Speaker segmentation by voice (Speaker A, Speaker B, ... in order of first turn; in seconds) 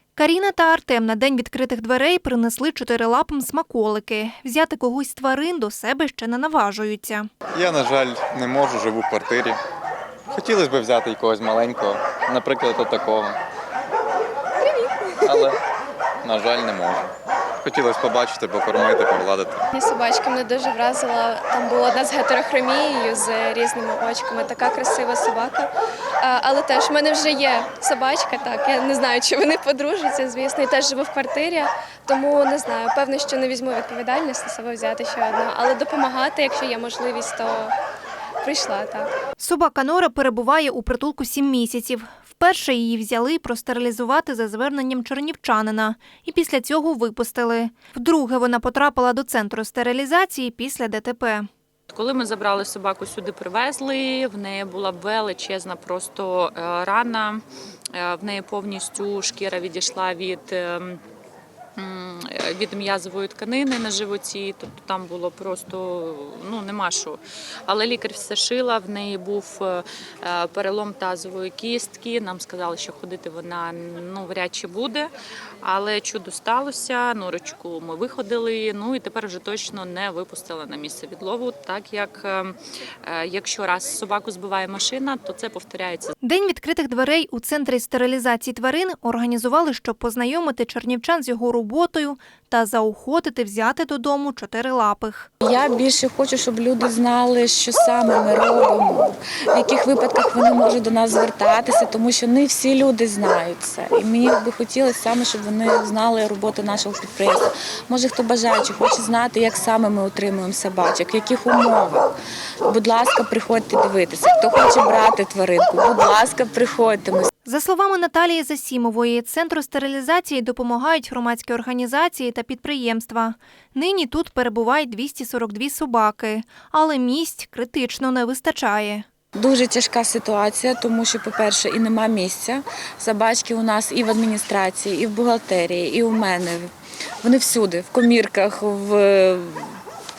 Speaker A: 0.2-7.3, 39.4-51.5, 86.2-95.3, 117.5-129.1
Speaker B: 7.6-9.5, 10.4-13.3, 16.3-17.0, 17.7-19.5
Speaker C: 19.7-25.7, 26.2-37.7, 38.4-39.1
Speaker D: 51.9-57.4, 58.0-61.0, 61.8-75.1, 75.6-86.1
Speaker E: 95.4-112.1, 112.7-117.3, 129.3-136.7, 137.2-139.8